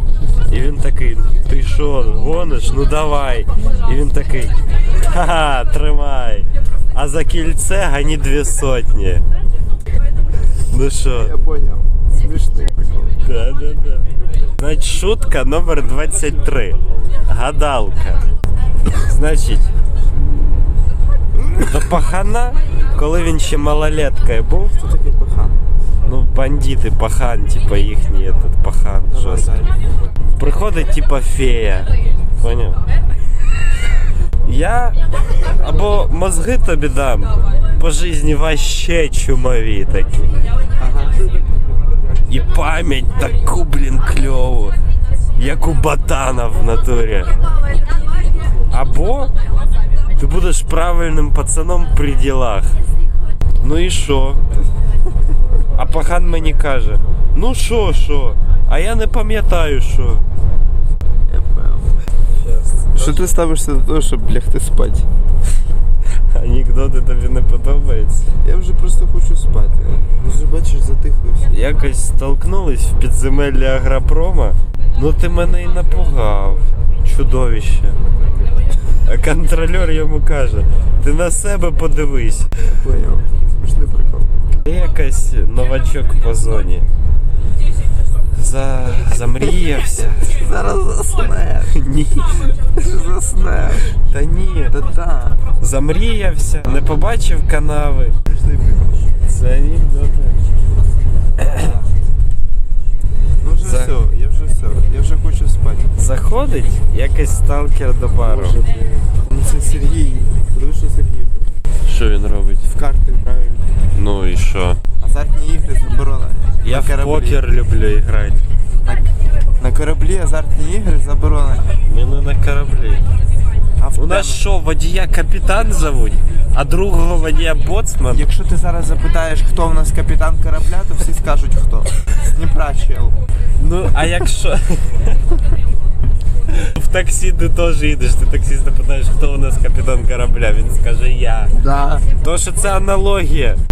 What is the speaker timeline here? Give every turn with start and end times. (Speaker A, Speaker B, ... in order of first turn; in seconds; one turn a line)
Speaker A: 0.5-9.2
Speaker A: 10.7-11.3
Speaker B: 11.2-13.2
Speaker A: 13.2-14.1
Speaker A: 14.6-18.2
Speaker A: 18.9-19.7
Speaker A: 21.5-24.8
Speaker B: 24.7-25.6
Speaker A: 26.1-29.6
Speaker B: 29.1-29.8
Speaker A: 30.4-32.8
Speaker A: 34.4-40.3
Speaker B: 40.8-41.1
Speaker A: 42.3-44.8
Speaker A: 45.4-47.3
Speaker A: 48.7-49.3
Speaker A: 50.2-52.8
Speaker A: 53.6-54.4
Speaker A: 55.8-60.2
Speaker B: 61.3-62.0
Speaker A: 62.3-63.4
Speaker B: 63.0-65.0
Speaker A: 66.3-68.3
Speaker B: 68.4-71.5
Speaker A: 71.5-78.0
Speaker A: 79.0-82.5
Speaker B: 82.6-84.3
Speaker A: 84.6-86.9
Speaker A: 88.3-90.4
Speaker B: 90.2-91.7
Speaker A: 91.7-92.6
Speaker B: 92.7-93.9
Speaker A: 93.9-94.8
Speaker B: 94.7-95.4
Speaker A: 95.6-98.2
Speaker B: 98.2-99.0
Speaker A: 99.2-100.4
Speaker A: 101.4-101.7
Speaker B: 103.4-105.9
Speaker A: 103.6-104.0
Speaker A: 106.0-108.6
Speaker B: 108.2-111.5
Speaker A: 111.8-112.7
Speaker B: 112.7-113.7
Speaker A: 113.9-114.8
Speaker B: 115.0-117.4
Speaker A: 116.6-118.4
Speaker B: 119.6-121.8
Speaker A: 121.8-123.0
Speaker B: 123.8-124.4
Speaker A: 124.0-128.2
Speaker B: 128.1-133.2
Speaker A: 133.6-134.9
Speaker A: 136.5-141.5
Speaker B: 141.6-142.0
Speaker A: 142.2-143.6